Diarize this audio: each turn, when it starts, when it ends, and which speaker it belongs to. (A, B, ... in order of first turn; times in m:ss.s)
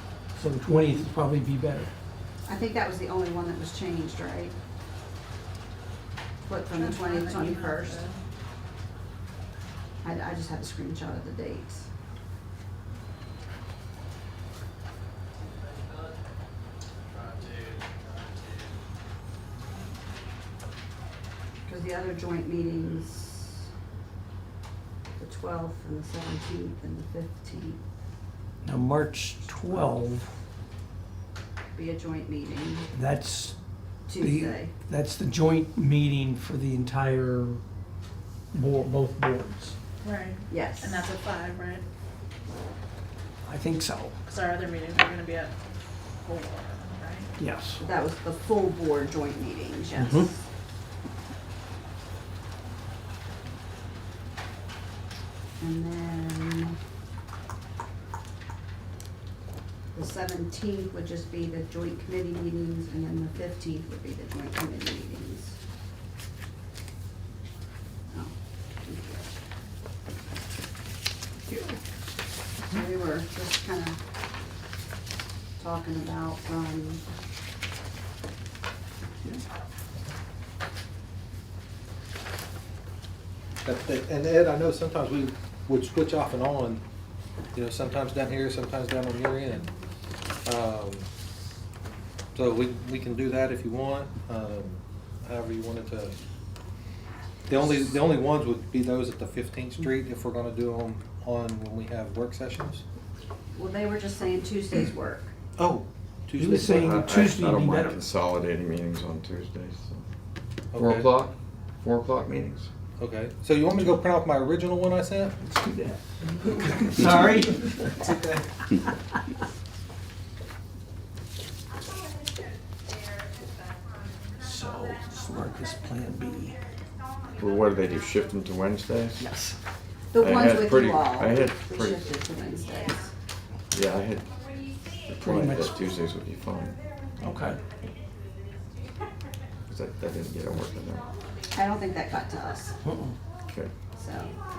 0:00.3-0:01.9 A
0:02.4-0:04.5 B
0:06.4-0:08.0 B
0:06.8-0:08.2 C
0:10.0-0:11.9 B
0:21.7-0:23.6 B
0:25.2-0:27.8 B
0:28.6-0:30.3 A
0:31.7-0:32.9 B
0:32.9-0:33.6 A
0:34.1-0:34.7 B
0:34.2-0:37.6 A
0:38.5-0:39.8 A
0:40.0-0:41.8 C
0:40.5-0:41.1 B
0:43.4-0:44.2 A
0:44.2-0:45.5 C
0:46.2-0:47.3 C
0:47.4-0:47.8 A
0:47.8-0:50.4 B
0:49.9-0:50.3 A
0:55.6-0:56.8 B
0:59.9-1:05.6 B
1:08.1-1:09.3 B
1:11.4-1:11.8 A
1:12.7-1:14.0 B
1:15.6-1:17.0 B
1:23.6-1:26.8 D
1:27.5-1:29.7 D
1:30.4-1:31.1 D
1:32.3-1:36.1 D
1:37.5-1:42.8 D
1:43.5-1:45.3 B
1:45.6-1:47.0 D
1:46.3-1:48.0 A
1:46.6-1:50.0 E
1:50.7-1:51.1 D
1:50.8-1:52.7 E
1:53.0-1:55.4 D
1:55.4-1:58.1 A
1:58.1-1:58.4 D
2:04.4-2:06.6 A
2:07.3-2:09.2 E
2:09.2-2:09.6 A
2:10.1-2:13.1 B
2:10.2-2:12.1 E
2:13.7-2:14.3 E
2:15.0-2:16.8 E
2:15.2-2:15.8 A
2:17.2-2:17.6 A
2:19.7-2:21.1 E
2:21.5-2:22.7 B
2:22.8-2:23.2 A
2:23.5-2:23.7 E
2:24.0-2:24.3 B